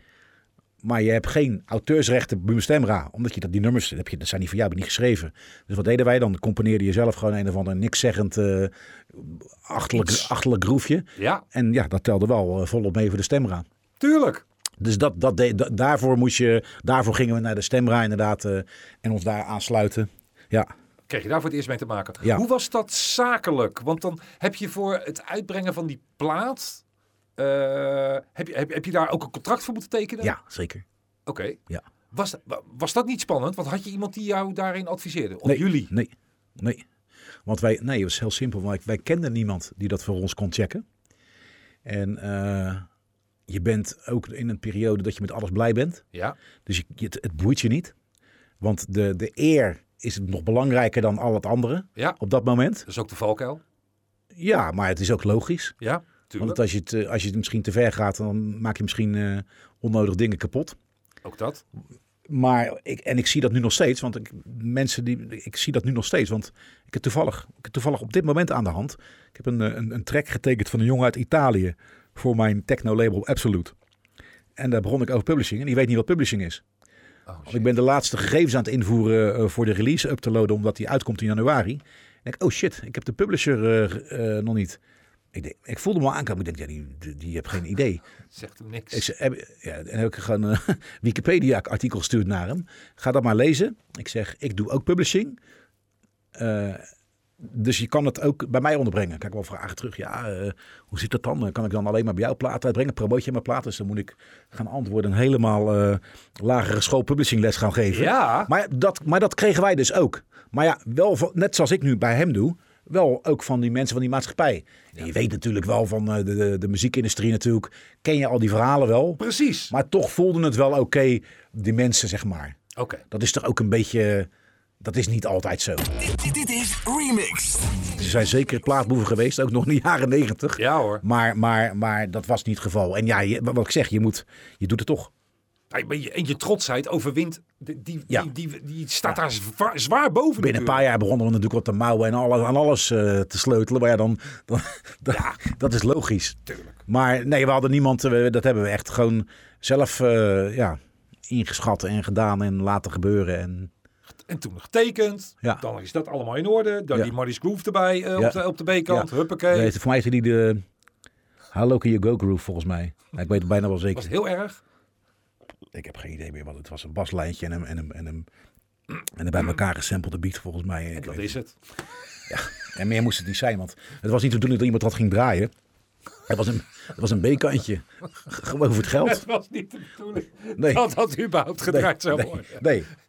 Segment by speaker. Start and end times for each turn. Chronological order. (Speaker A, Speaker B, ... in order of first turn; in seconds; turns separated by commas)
Speaker A: 0.8-13.7, Speaker B: 10.0-10.3, Speaker B: 11.2-11.4, Speaker B: 14.0-14.4, Speaker A: 14.8-20.7, Speaker B: 21.1-26.8, Speaker B: 27.4-30.4, Speaker A: 30.2-30.8, Speaker B: 31.3-31.6, Speaker B: 32.1-35.9, Speaker A: 35.5-36.8, Speaker A: 37.5-40.8, Speaker A: 41.9-42.9, Speaker A: 43.5-46.0, Speaker A: 46.7-47.9, Speaker A: 48.6-52.9, Speaker B: 52.9-53.6, Speaker A: 54.3-55.8, Speaker B: 55.8-56.6, Speaker A: 56.4-60.8, Speaker B: 61.2-61.6, Speaker A: 62.3-73.7, Speaker A: 74.6-76.6, Speaker B: 77.3-77.7, Speaker A: 77.5-84.8, Speaker A: 85.3-88.0, Speaker B: 88.3-89.1, Speaker A: 88.9-95.4, Speaker A: 96.3-96.9, Speaker A: 97.4-122.6, Speaker B: 107.9-108.5, Speaker B: 119.2-119.7, Speaker B: 122.8-123.0, Speaker A: 123.1-124.3, Speaker A: 124.8-125.9, Speaker C: 126.0-128.0, Speaker A: 128.0-135.1, Speaker B: 130.6-131.0, Speaker B: 135.7-140.8, Speaker A: 140.4-150.8, Speaker B: 145.1-145.4, Speaker B: 146.5-146.7, Speaker A: 151.3-153.7, Speaker B: 154.3-159.7, Speaker A: 158.2-160.6, Speaker A: 161.5-164.1, Speaker B: 163.9-164.6, Speaker A: 165.7-168.3, Speaker A: 169.1-171.3, Speaker B: 171.0-171.5, Speaker A: 172.3-175.5, Speaker A: 176.3-179.2, Speaker B: 179.0-182.6, Speaker A: 180.6-180.8, Speaker A: 181.7-182.9